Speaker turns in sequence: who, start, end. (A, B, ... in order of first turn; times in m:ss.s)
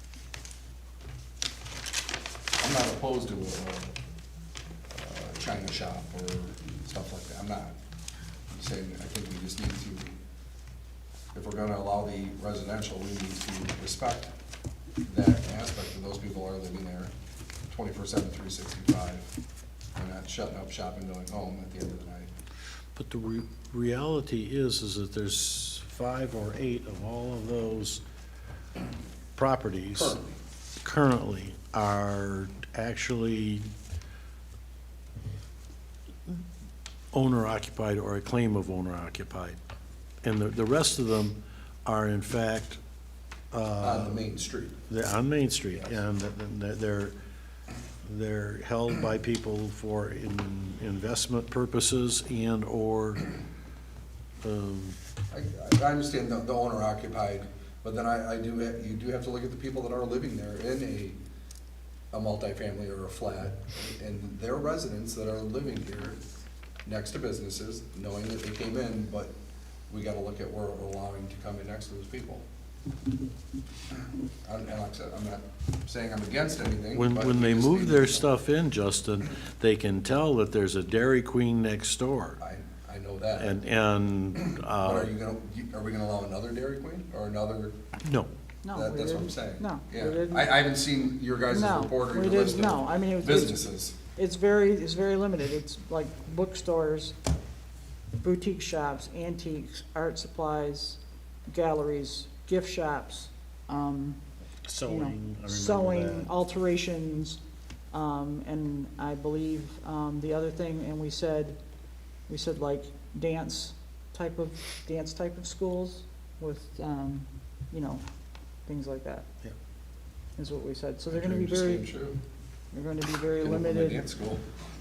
0:02.6-0:04.0 A
0:04.9-0:07.8 A
0:08.5-0:10.2 A
0:11.3-0:14.3 A
0:15.0-0:17.1 A
0:17.7-0:19.3 A
0:19.9-0:22.3 A
0:22.9-0:28.0 B
0:29.4-0:30.2 B
0:29.9-0:30.4 A
0:30.8-0:33.7 B
0:37.1-0:39.6 B
0:40.2-0:42.8 B
0:43.5-0:44.2 B
0:43.8-0:44.8 A
0:44.9-0:47.1 B
0:48.0-0:53.3 B
0:54.4-0:55.0 B
0:55.3-1:01.2 A
1:02.1-1:06.2 A
1:06.8-1:09.3 A
1:09.9-1:12.4 A
1:14.4-1:18.3 A
1:16.9-1:22.4 B
1:22.4-1:23.6 A
1:23.4-1:25.1 B
1:24.4-1:27.8 A
1:28.0-1:28.3 B
1:28.6-1:30.6 C
1:28.7-1:34.0 A
1:31.5-1:37.1 C
1:38.2-1:44.2 C
1:44.7-1:46.3 B
1:44.8-1:47.4 C
1:47.9-1:51.6 C
1:52.3-1:58.0 C
1:58.6-1:59.2 C
2:00.4-2:01.9 C
2:01.1-2:02.2 A
2:02.7-2:04.0 C
2:03.4-2:04.4 A